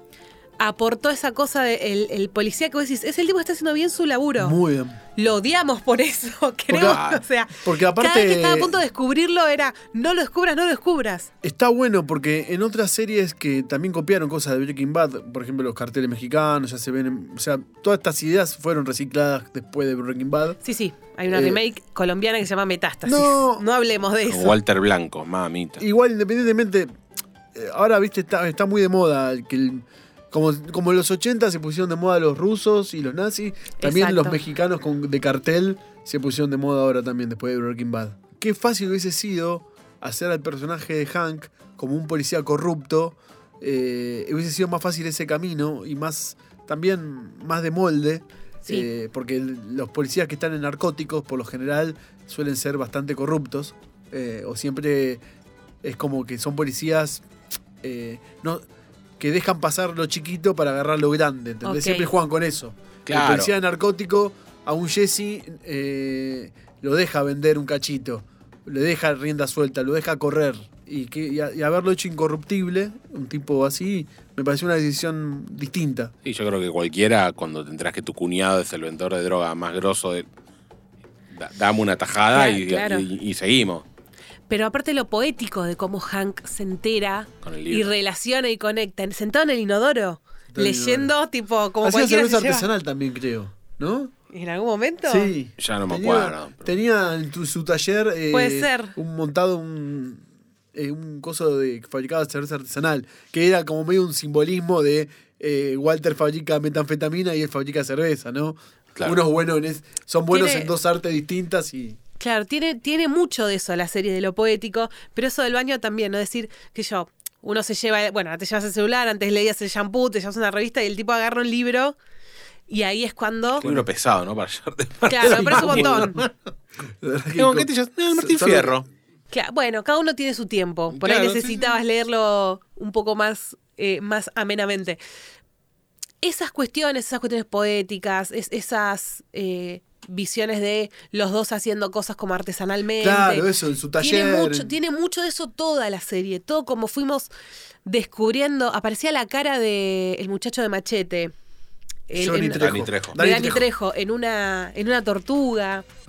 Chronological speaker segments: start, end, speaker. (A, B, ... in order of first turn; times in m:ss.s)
0:00.6-0:04.6 A
0:04.4-0:05.0 B
0:05.2-0:11.3 A
0:06.7-0:07.0 B
0:06.8-0:07.2 C
0:07.6-0:08.8 B
0:11.4-0:20.6 B
0:20.6-0:24.6 A
0:21.3-0:21.6 B
0:23.0-0:23.6 B
0:24.3-0:25.8 C
0:25.8-0:26.9 B
0:27.5-0:55.2 B
0:33.8-0:34.4 A
0:55.8-0:57.2 B
0:57.8-0:58.6 B
0:59.2-1:16.1 B
1:01.6-1:02.1 A
1:03.1-1:03.5 C
1:16.2-1:20.3 C
1:21.3-1:23.8 C
1:22.3-1:23.1 A
1:24.5-1:32.7 A
1:27.4-1:27.9 C
1:30.5-1:31.1 B
1:31.8-1:34.1 B
1:34.3-1:35.3 A
1:35.1-1:52.0 B
1:35.6-1:36.7 C
1:38.3-1:39.0 A
1:50.3-1:50.7 A
1:52.2-2:02.0 A
2:02.7-2:03.6 A
2:03.6-2:06.3 C
2:05.1-2:06.2 A
2:05.3-2:06.2 B
2:07.0-2:08.8 B
2:07.4-2:08.8 C
2:09.3-2:15.0 A
2:10.9-2:11.7 C
2:16.2-2:27.3 A
2:23.0-2:24.7 B
2:27.8-2:31.3 A
2:32.1-2:35.8 A
2:32.1-2:33.7 B
2:32.6-2:33.2 C